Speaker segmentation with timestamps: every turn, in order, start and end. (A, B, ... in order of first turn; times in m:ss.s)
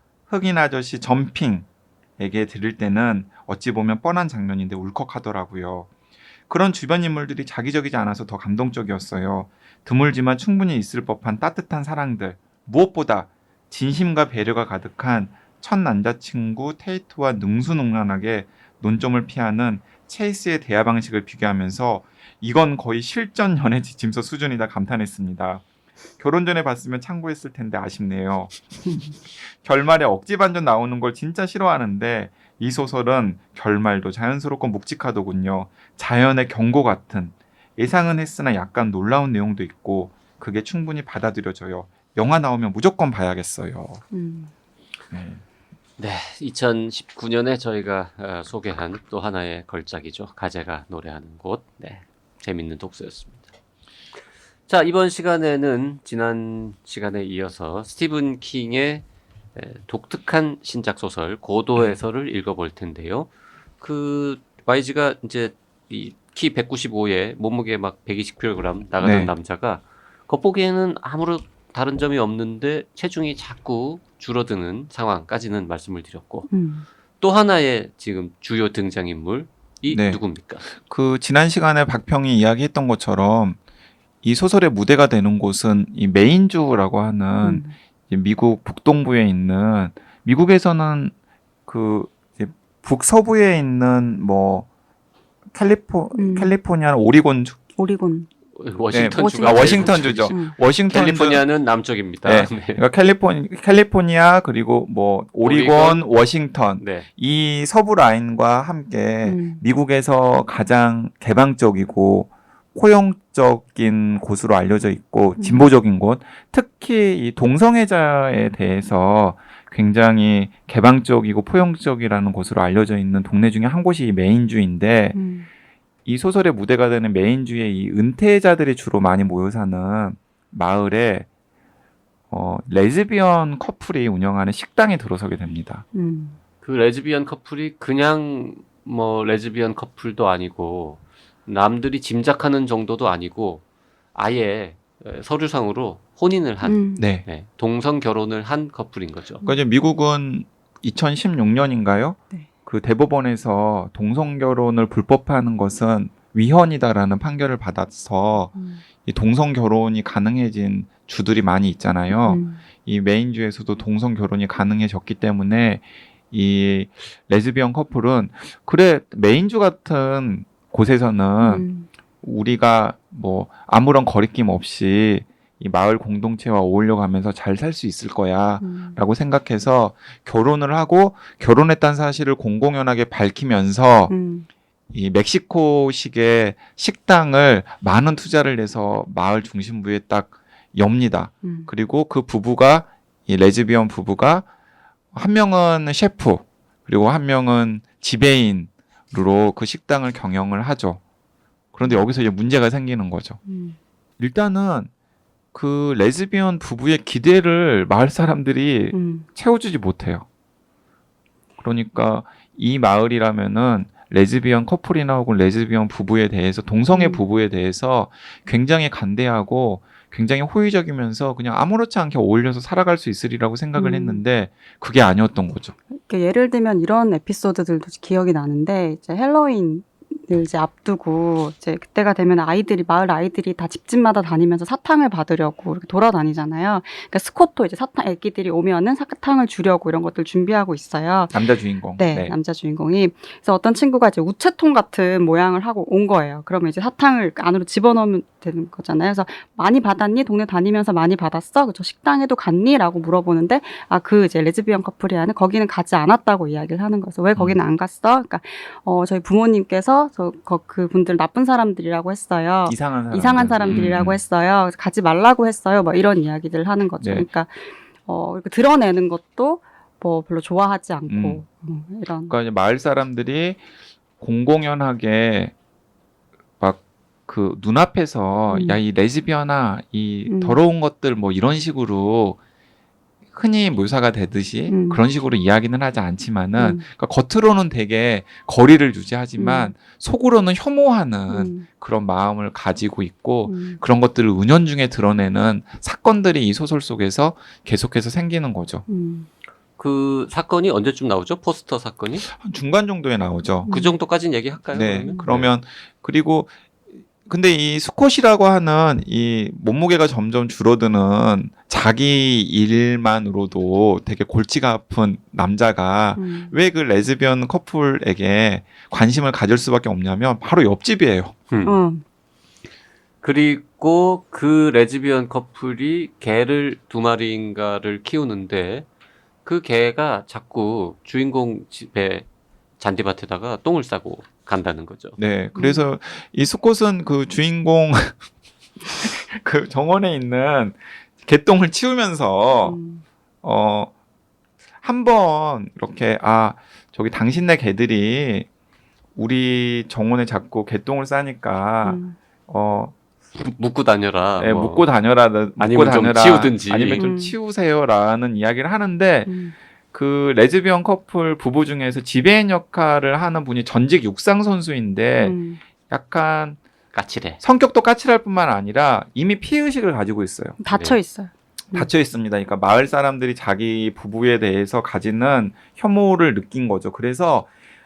0:00.3-0:01.7 A
0:02.2-0:05.9 A
0:06.5-0:25.6 A
0:26.2-0:28.6 A
0:29.4-0:44.0 A
0:44.1-0:44.5 B
0:45.1-0:45.4 A
0:46.0-0:53.4 C
0:54.7-1:03.3 C
1:03.8-1:16.5 C
1:09.0-1:09.3 A
1:16.5-1:16.8 B
1:17.2-1:20.6 C
1:19.9-1:23.6 A
1:24.2-1:31.1 A
1:27.4-1:27.7 B
1:31.7-1:34.7 A
1:35.5-1:37.6 A
1:36.1-1:36.5 B
1:37.8-1:38.3 B
1:38.6-1:42.8 C
1:38.9-1:41.4 A
1:39.2-1:40.5 B
1:42.2-2:05.2 A
1:45.4-1:46.1 C
1:46.8-1:47.1 C
1:49.2-1:49.6 B
1:55.4-1:55.7 B
2:05.1-2:05.5 B
2:06.0-2:11.3 A
2:12.3-2:15.8 A
2:15.9-2:16.4 B
2:16.6-2:23.6 C
2:24.1-2:29.4 C
2:26.6-2:27.0 B
2:27.0-2:27.2 A
2:29.4-2:51.7 A
2:38.5-2:38.8 B
2:42.1-2:42.6 B
2:51.4-2:51.9 B
2:52.2-3:04.1 A
2:58.6-2:59.0 B
3:04.1-3:04.5 B
3:04.9-3:14.5 A
3:11.4-3:11.7 B
3:15.1-3:21.0 A
3:21.7-3:23.4 A
3:23.4-3:23.8 B
3:24.2-3:24.9 A
3:25.5-3:30.2 A
3:28.9-3:29.3 B
3:31.6-3:45.7 A
3:36.9-3:37.2 B
3:43.7-3:44.2 B
3:45.9-4:01.4 B
4:01.3-4:02.4 A
4:02.0-4:32.3 B
4:22.6-4:24.2 A
4:23.6-4:23.9 C
4:27.0-4:27.3 A
4:31.1-4:31.4 A
4:32.3-4:33.6 A
4:34.2-4:35.5 A
4:36.6-4:42.4 A
4:38.5-4:38.8 B
4:40.3-4:40.6 B
4:43.3-4:58.8 A
4:44.7-4:45.0 B
4:46.6-4:46.8 B
4:49.4-4:49.7 B
4:51.3-4:51.6 B
4:53.4-4:53.8 B
4:58.9-4:59.3 B
4:59.8-5:02.3 C
5:02.3-5:03.7 A
5:03.6-5:04.0 B
5:03.7-5:05.5 C
5:04.7-5:06.5 A
5:07.2-5:21.3 A
5:16.2-5:16.6 B
5:21.6-5:22.0 B
5:23.2-5:28.9 C
5:29.4-5:32.2 C
5:32.8-5:35.2 C
5:35.2-5:38.2 A
5:35.5-5:35.8 B
5:39.0-5:42.8 A
5:42.5-5:43.0 B
5:43.4-5:43.9 A
5:44.8-5:48.5 A
5:49.2-5:52.9 A
5:51.8-5:52.2 B
5:53.4-5:54.9 C
5:54.4-5:59.4 A
5:55.6-5:57.0 C
5:56.9-5:57.4 B
5:59.3-5:59.5 B
5:59.9-6:05.4 A
6:05.2-6:05.6 B
6:05.9-6:06.6 A
6:06.9-6:07.4 C
6:07.4-6:10.6 A
6:10.6-6:11.9 B
6:10.7-6:11.0 C
6:11.7-6:17.5 A